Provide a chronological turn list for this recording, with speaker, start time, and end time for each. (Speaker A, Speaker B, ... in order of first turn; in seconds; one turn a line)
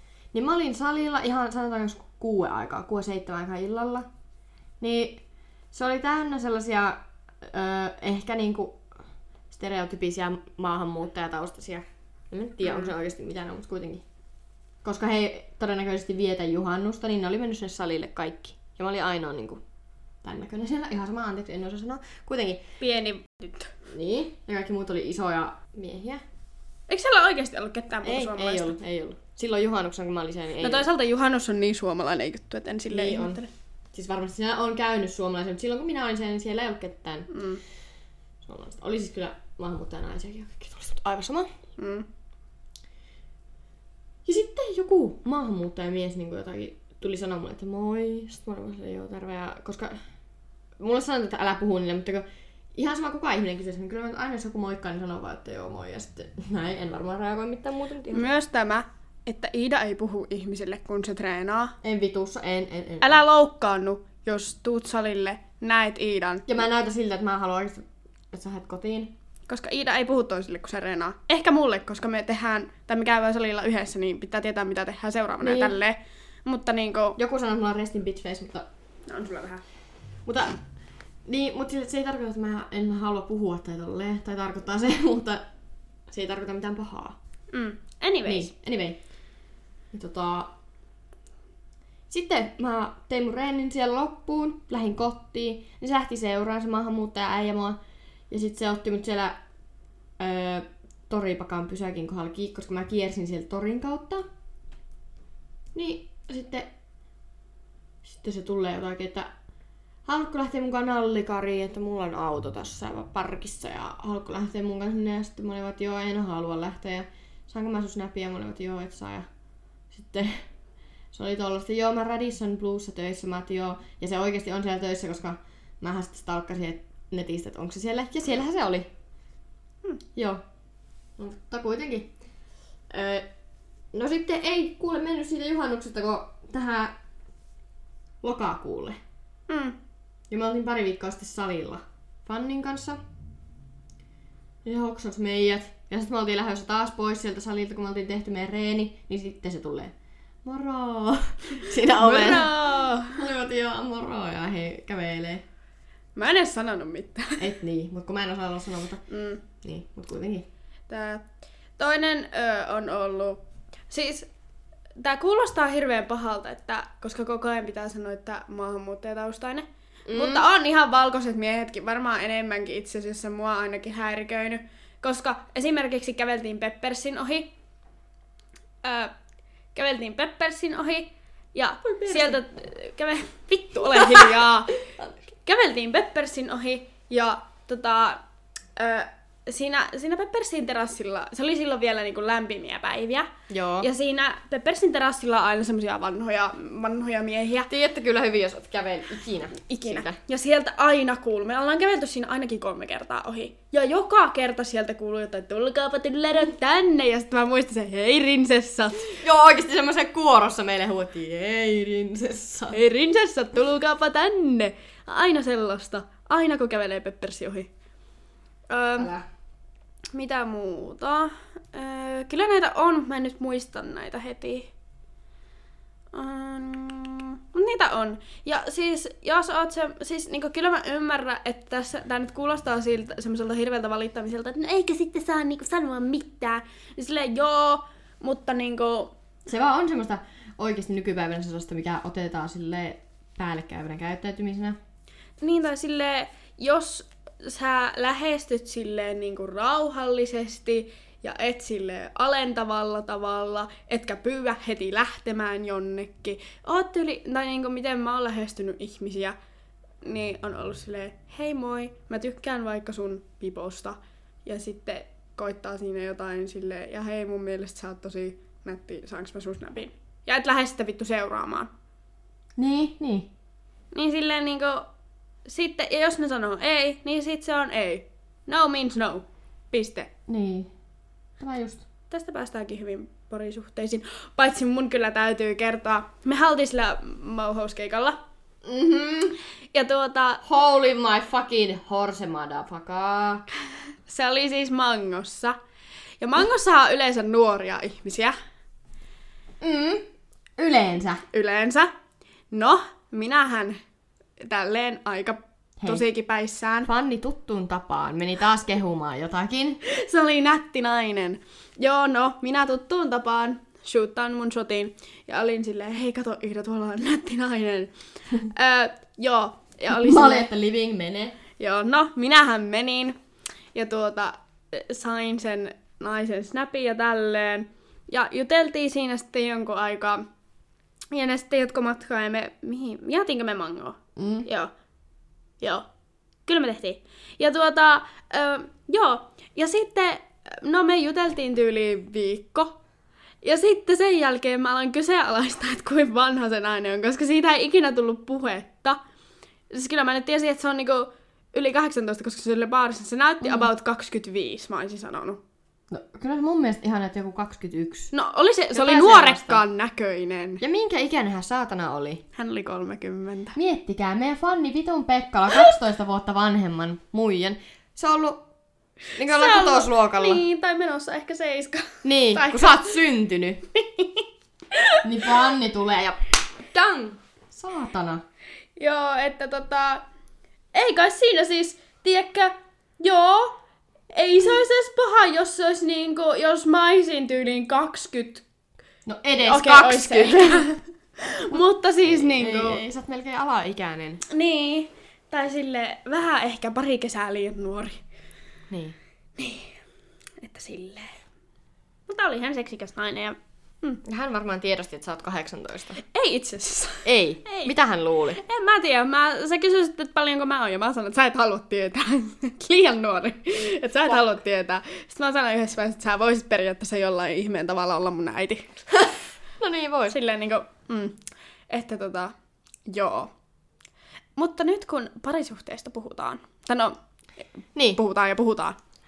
Speaker A: 0.3-4.1
Speaker A: 4.8-8.8
Speaker A: 9.5-14.0
Speaker A: 14.8-19.6
Speaker A: 20.2-22.6
Speaker B: 22.8-23.7
Speaker A: 23.9-26.2
Speaker B: 26.9-28.8
Speaker A: 28.0-30.9
Speaker B: 30.6-33.5
Speaker A: 32.9-33.4
Speaker A: 33.9-37.3
Speaker B: 37.3-37.6
Speaker A: 38.4-41.5
Speaker B: 41.8-42.1
Speaker A: 44.3-50.0
Speaker A: 50.8-58.3
Speaker B: 58.1-61.8
Speaker A: 61.8-63.2
Speaker B: 63.0-66.5
Speaker A: 66.5-69.1
Speaker B: 69.5-77.2
Speaker A: 75.4-75.8
Speaker A: 77.2-78.7
Speaker B: 79.1-79.6
Speaker A: 80.2-80.6
Speaker A: 81.3-85.5
Speaker A: 86.1-87.2
Speaker B: 87.5-88.5
Speaker A: 88.3-89.0
Speaker A: 89.9-90.5
Speaker A: 92.1-97.8
Speaker A: 98.3-99.4
Speaker A: 100.2-104.2
Speaker A: 105.7-106.7
Speaker A: 108.0-109.3
Speaker A: 110.1-119.3
Speaker A: 119.9-120.5
Speaker A: 121.1-128.9
Speaker A: 130.2-130.4
Speaker A: 131.2-132.1
Speaker A: 132.9-133.3
Speaker A: 133.9-136.9
Speaker A: 138.2-139.0
Speaker B: 139.5-139.8
Speaker A: 140.3-143.0
Speaker A: 144.7-149.9
Speaker A: 150.4-155.4
Speaker B: 151.9-153.2
Speaker B: 156.2-157.4
Speaker A: 157.4-159.1
Speaker B: 159.1-159.4
Speaker A: 159.6-160.5
Speaker B: 160.9-161.3
Speaker B: 161.8-164.3
Speaker B: 165.0-177.5
Speaker A: 170.1-170.5
Speaker B: 178.8-179.1
Speaker B: 179.8-184.8
Speaker A: 181.8-182.4
Speaker A: 183.9-184.4
Speaker B: 185.4-188.2
Speaker B: 188.8-197.7
Speaker A: 193.5-193.9
Speaker A: 197.7-200.2
Speaker B: 199.7-209.2
Speaker A: 209.2-212.8
Speaker B: 212.7-217.7
Speaker B: 218.7-219.1
Speaker A: 219.0-219.2
Speaker B: 220.1-224.7
Speaker B: 226.1-239.1
Speaker A: 239.5-244.8
Speaker B: 245.4-259.4
Speaker B: 260.0-271.7
Speaker A: 272.6-273.3
Speaker B: 273.9-274.9
Speaker B: 275.5-280.1
Speaker A: 280.3-280.7
Speaker A: 281.4-281.8
Speaker B: 282.1-288.2
Speaker A: 288.6-289.4
Speaker B: 289.7-290.4
Speaker A: 290.4-293.4
Speaker B: 294.1-295.6
Speaker B: 296.2-298.4
Speaker A: 299.6-300.1
Speaker A: 300.6-301.2
Speaker B: 301.3-301.9
Speaker B: 302.5-303.8
Speaker B: 304.4-306.9
Speaker A: 305.8-306.1
Speaker A: 306.9-309.8
Speaker B: 309.8-320.5
Speaker A: 319.9-321.4
Speaker B: 321.6-323.2
Speaker B: 323.8-330.2
Speaker B: 331.1-334.7
Speaker A: 334.2-334.5
Speaker B: 335.6-335.9
Speaker B: 336.5-342.8
Speaker B: 343.4-349.0
Speaker B: 349.7-355.4
Speaker A: 353.4-353.7
Speaker A: 355.9-358.1
Speaker B: 358.1-360.6
Speaker A: 358.7-359.6
Speaker A: 360.6-362.2
Speaker B: 362.4-363.6
Speaker A: 363.6-368.4
Speaker A: 369.2-370.4
Speaker B: 369.2-372.9
Speaker A: 372.0-373.6
Speaker B: 373.8-375.3
Speaker A: 375.0-378.2
Speaker B: 378.8-380.0
Speaker B: 380.7-383.6
Speaker B: 384.1-388.4
Speaker A: 389.1-390.7
Speaker B: 389.5-392.8
Speaker A: 391.5-394.2
Speaker B: 394.3-398.0
Speaker A: 398.7-399.0
Speaker B: 399.4-399.7
Speaker B: 400.4-401.2
Speaker B: 402.1-404.0
Speaker A: 404.0-406.0
Speaker B: 406.0-407.7
Speaker A: 407.0-408.4
Speaker B: 408.3-418.9
Speaker A: 419.6-420.2
Speaker B: 420.1-421.2
Speaker B: 421.7-422.3
Speaker B: 422.9-423.3
Speaker B: 424.4-427.0
Speaker A: 427.8-428.0
Speaker B: 427.9-428.8